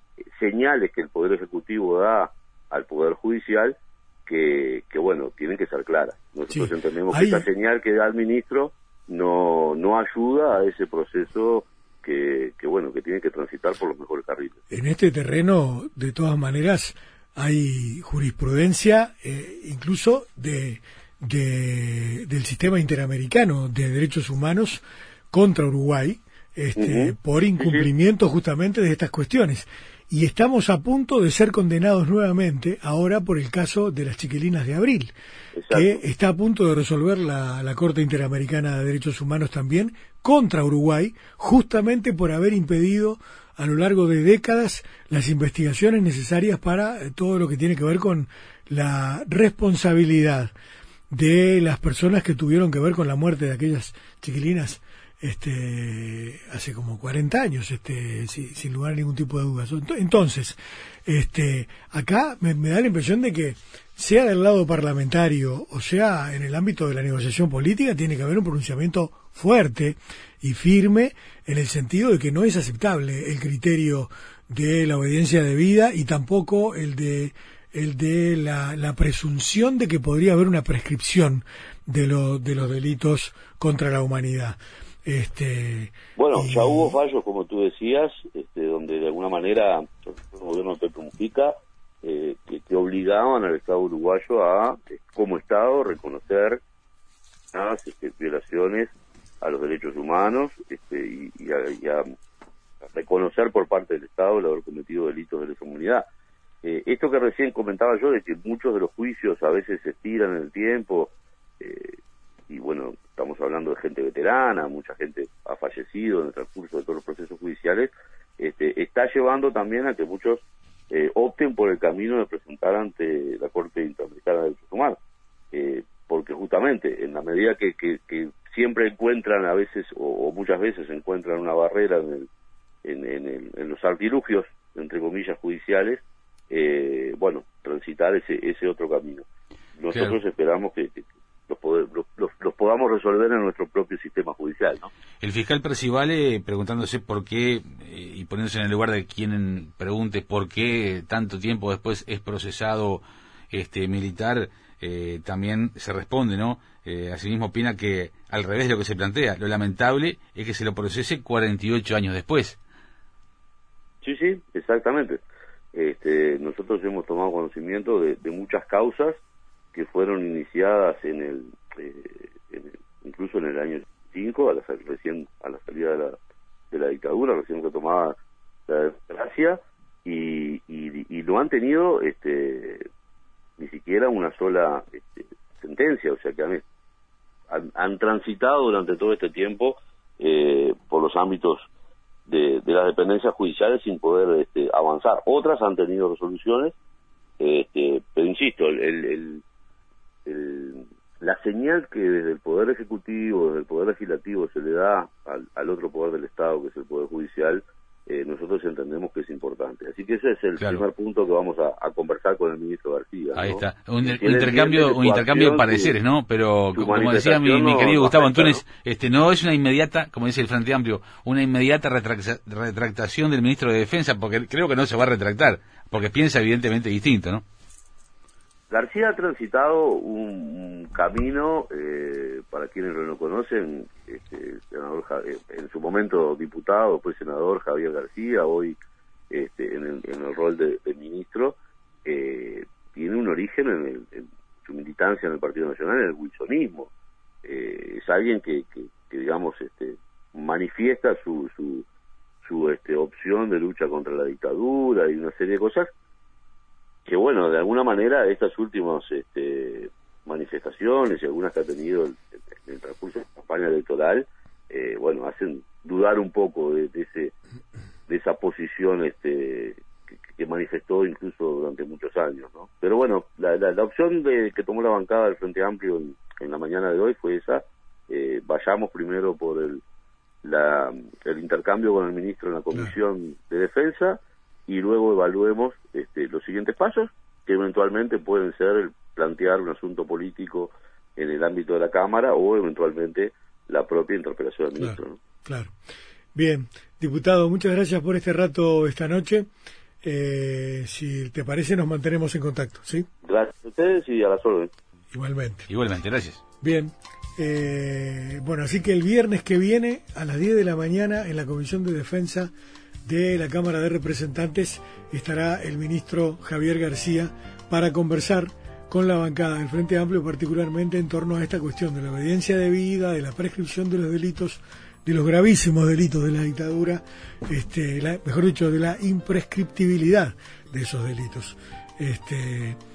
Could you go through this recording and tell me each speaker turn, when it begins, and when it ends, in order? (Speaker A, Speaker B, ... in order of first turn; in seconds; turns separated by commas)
Speaker A: 0.4-14.6, Speaker B: 6.5-7.5, Speaker B: 14.7-35.1, Speaker A: 26.8-27.9, Speaker A: 35.5-36.0, Speaker B: 35.7-50.5, Speaker B: 51.1-87.0, Speaker A: 86.2-96.6, Speaker A: 97.5-102.0, Speaker A: 102.9-106.0, Speaker A: 106.6-112.0, Speaker A: 112.5-125.0, Speaker A: 125.5-132.3, Speaker A: 132.8-144.9, Speaker C: 139.9-140.2, Speaker C: 145.2-162.6, Speaker A: 164.0-165.2, Speaker A: 165.7-169.2, Speaker A: 169.7-176.2, Speaker A: 176.7-178.1, Speaker A: 178.7-182.9, Speaker A: 183.6-186.6, Speaker A: 187.5-191.7, Speaker A: 192.3-196.8, Speaker A: 197.4-199.4, Speaker A: 200.3-216.0, Speaker C: 210.6-210.8, Speaker C: 213.3-227.4, Speaker A: 216.8-218.6, Speaker A: 228.7-238.8, Speaker A: 239.3-246.9, Speaker A: 247.4-251.8, Speaker A: 252.4-255.9, Speaker A: 257.1-267.3, Speaker A: 268.1-279.8, Speaker A: 280.4-295.2, Speaker B: 294.8-295.7, Speaker B: 296.4-299.5, Speaker B: 300.0-303.1, Speaker A: 303.2-304.7, Speaker B: 305.1-305.7, Speaker C: 305.7-306.4, Speaker B: 306.6-312.5, Speaker B: 313.1-332.8